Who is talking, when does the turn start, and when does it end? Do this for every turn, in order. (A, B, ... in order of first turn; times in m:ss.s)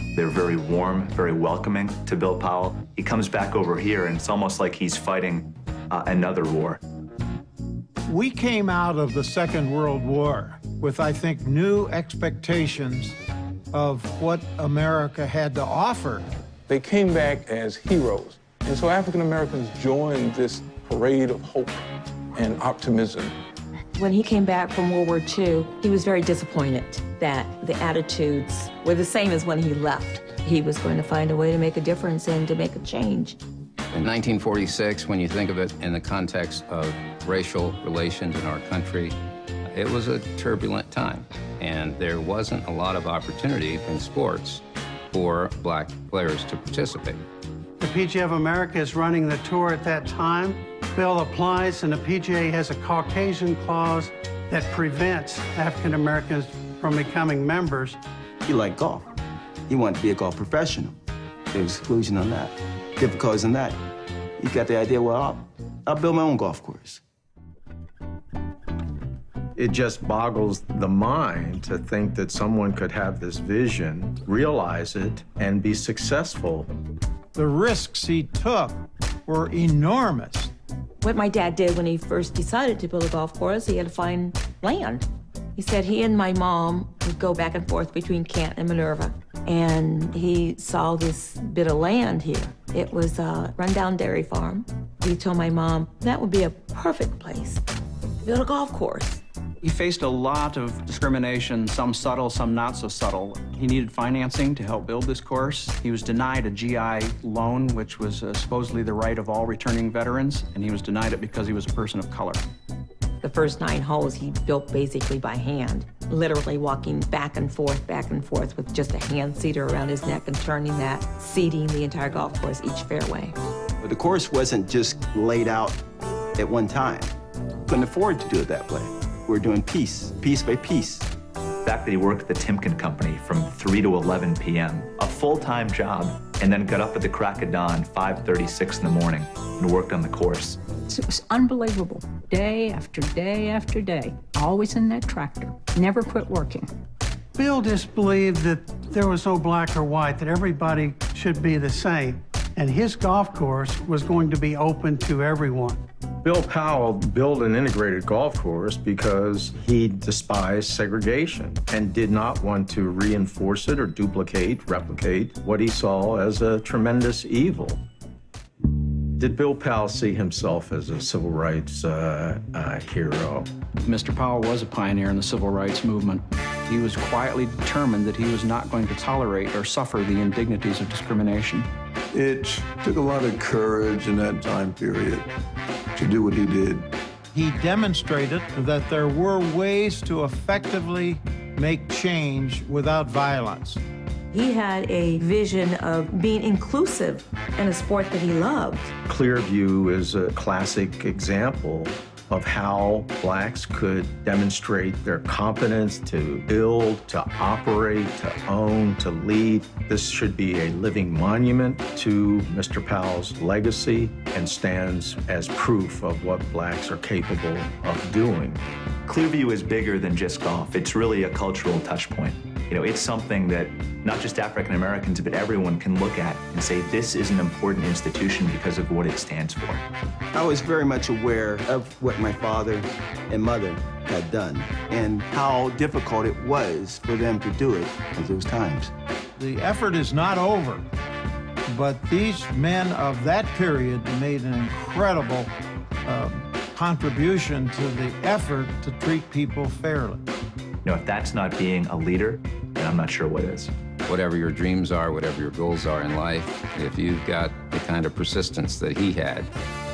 0:00.2-0:06.8 A
0:08.1-0:13.2 B
0:13.7-0:16.3 B
0:16.7-0:21.8 C
0:22.3-0:23.4 C
0:24.0-0:33.4 D
0:33.9-0:47.2 E
0:47.8-0:58.0 F
0:58.5-0:59.2 G
0:59.7-1:01.0 G
1:01.5-1:03.8 G
1:04.4-1:07.0 G
1:09.6-1:16.7 H
1:17.4-1:20.5 B
1:21.0-1:37.6 D
1:38.2-1:39.2 D
1:39.6-1:52.4 I
1:53.2-2:03.3 D
2:03.8-2:05.8 G
2:06.4-2:07.1 G
2:07.7-2:11.1 G
2:11.7-2:20.6 A
2:20.9-2:26.7 J
2:27.4-2:35.8 F
2:36.2-2:47.8 H
2:49.2-2:53.5 H
2:53.8-3:01.7 I
3:02.1-3:05.3 K
3:06.0-3:06.9 K
3:07.3-3:13.8 B
3:14.3-3:18.9 D
3:19.1-3:38.6 H
3:39.1-3:49.8 A
3:50.3-3:58.9 G
3:59.4-4:00.9 B
4:01.7-4:05.5 B
4:06.1-4:10.2 B
4:10.8-4:13.7 A
4:14.1-4:19.5 E